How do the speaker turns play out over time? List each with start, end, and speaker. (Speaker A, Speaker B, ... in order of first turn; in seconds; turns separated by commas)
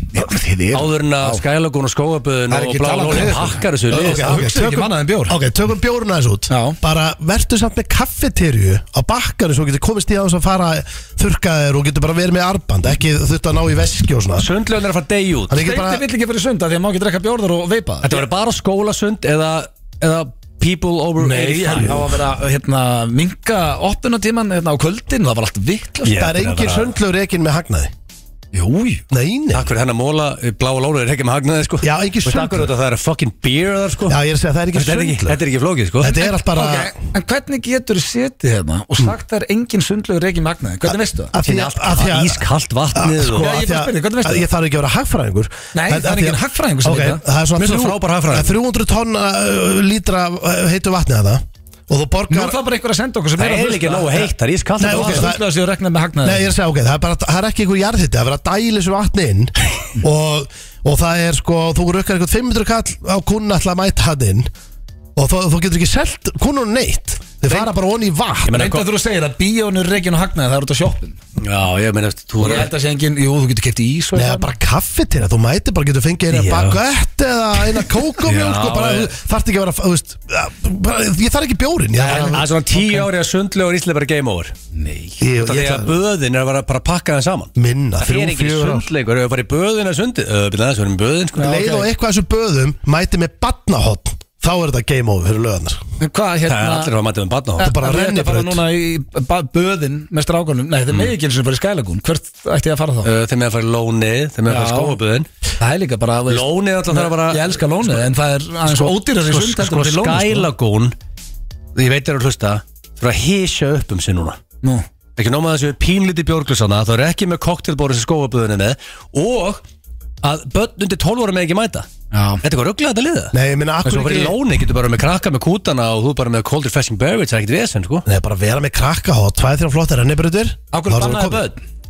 Speaker A: 0.1-1.4, Speaker B: 0.7-4.4, Speaker A: 2.5-5.3, Speaker C: 3.9-14.5, Speaker A: 6.5-6.8, Speaker B: 14.4-15.6, Speaker C: 15.5-16.0, Speaker A: 15.5-18.2, Speaker B: 18.0-22.0, Speaker C: 21.2-22.1, Speaker A: 21.4-26.2, Speaker B: 26.0-26.9, Speaker C: 26.1-27.9, Speaker A: 28.5-29.0, Speaker C: 29.1-29.7, Speaker B: 29.5-34.2, Speaker C: 31.8-32.7, Speaker C: 34.1-35.4, Speaker B: 34.7-36.2, Speaker C: 36.0-36.9, Speaker A: 36.2-41.3, Speaker C: 40.9-52.6, Speaker B: 41.4-43.5, Speaker A: 43.4-44.5, Speaker A: 45.7-47.2, Speaker B: 47.5-48.5, Speaker A: 52.3-54.3, Speaker B: 53.4-55.4, Speaker C: 54.8-55.4, Speaker A: 54.8-56.5, Speaker C: 56.2-64.5, Speaker C: 65.2-68.6, Speaker B: 68.5-68.8, Speaker A: 68.5-71.2, Speaker B: 71.4-72.7, Speaker A: 72.4-74.5, Speaker C: 74.1-82.5, Speaker B: 76.3-76.8, Speaker B: 77.8-79.1, Speaker A: 82.0-83.0, Speaker B: 82.1-84.5, Speaker A: 84.7-85.2, Speaker C: 85.2-85.9, Speaker B: 85.4-91.5, Speaker C: 87.5-88.9, Speaker A: 91.3-91.9, Speaker C: 91.4-95.8, Speaker A: 96.0-96.9, Speaker B: 96.5-97.7, Speaker A: 97.6-103.1, Speaker C: 97.6-98.6, Speaker B: 103.0-105.3, Speaker A: 104.5-105.0, Speaker A: 105.6-110.5, Speaker B: 106.3-108.1, Speaker B: 108.6-110.9, Speaker B: 111.7-114.4, Speaker B: 115.2-119.6, Speaker B: 120.2-121.9, Speaker A: 122.1-122.4, Speaker B: 122.4-128.1, Speaker C: 123.3-124.4, Speaker C: 128.1-131.4, Speaker A: 130.7-131.6